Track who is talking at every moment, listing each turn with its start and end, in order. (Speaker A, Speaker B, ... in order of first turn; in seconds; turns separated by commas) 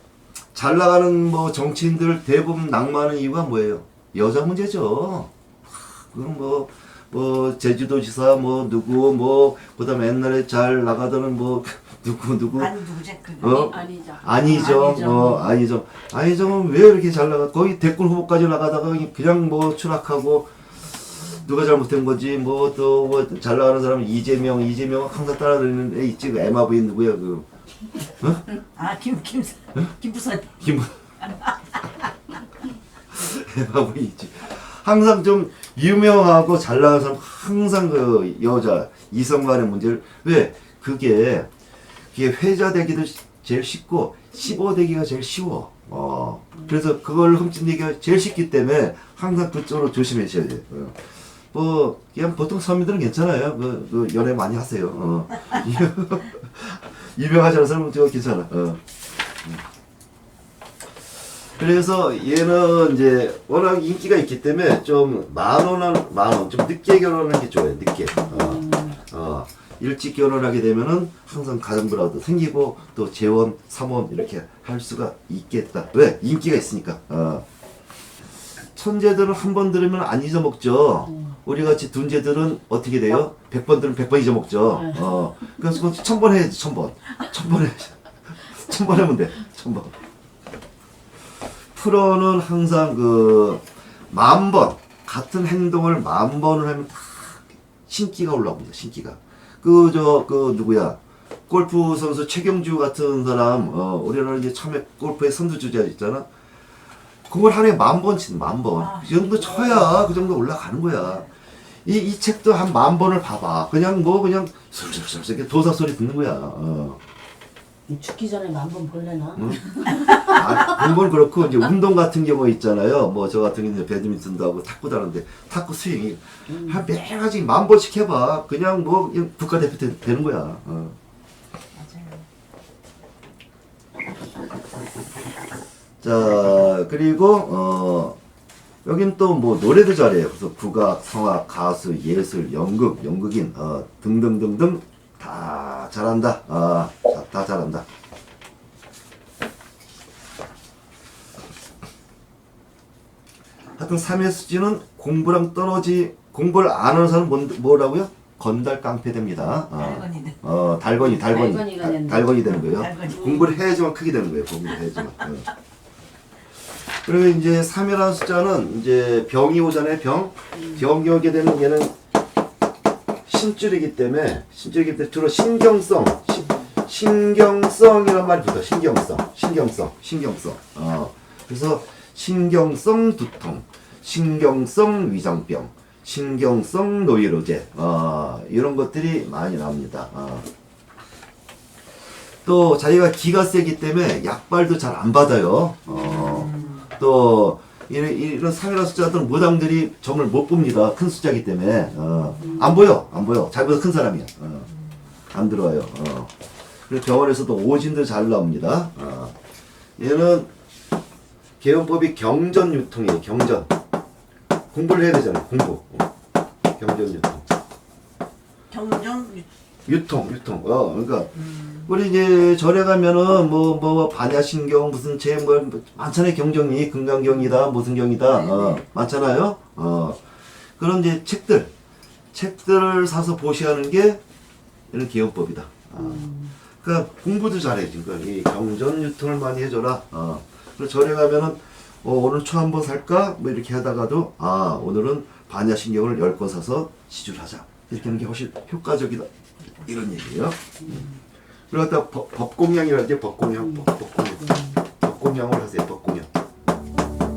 Speaker A: 0.5-12.8, Speaker B: 12.6-13.9, Speaker A: 13.4-20.5, Speaker C: 13.7-15.5, Speaker A: 21.2-27.5, Speaker A: 28.2-28.5, Speaker B: 28.7-30.6, Speaker A: 30.5-30.9, Speaker A: 33.1-41.5, Speaker A: 42.1-58.8, Speaker A: 61.6-77.5, Speaker C: 68.3-68.9, Speaker A: 78.8-90.0, Speaker A: 91.7-106.3, Speaker A: 107.3-111.3, Speaker B: 108.8-110.0, Speaker A: 111.8-117.0, Speaker C: 117.9-119.6, Speaker A: 119.4-131.0, Speaker C: 126.5-126.8, Speaker B: 131.8-132.2, Speaker A: 136.0-138.2, Speaker A: 138.8-147.9, Speaker A: 153.8-165.5, Speaker B: 159.7-160.4, Speaker C: 161.2-162.6, Speaker B: 162.6-163.5, Speaker A: 167.0-171.9, Speaker A: 173.3-190.5, Speaker A: 192.4-204.7, Speaker B: 196.0-196.8, Speaker A: 205.3-206.3, Speaker A: 206.9-209.4, Speaker A: 210.0-210.5, Speaker A: 211.6-213.7, Speaker A: 214.7-216.1, Speaker A: 216.8-217.4, Speaker B: 218.7-219.5, Speaker A: 219.9-230.2, Speaker A: 230.8-231.7, Speaker A: 232.3-234.2, Speaker A: 234.9-251.1, Speaker C: 236.0-236.5, Speaker A: 251.7-256.3, Speaker C: 254.4-254.7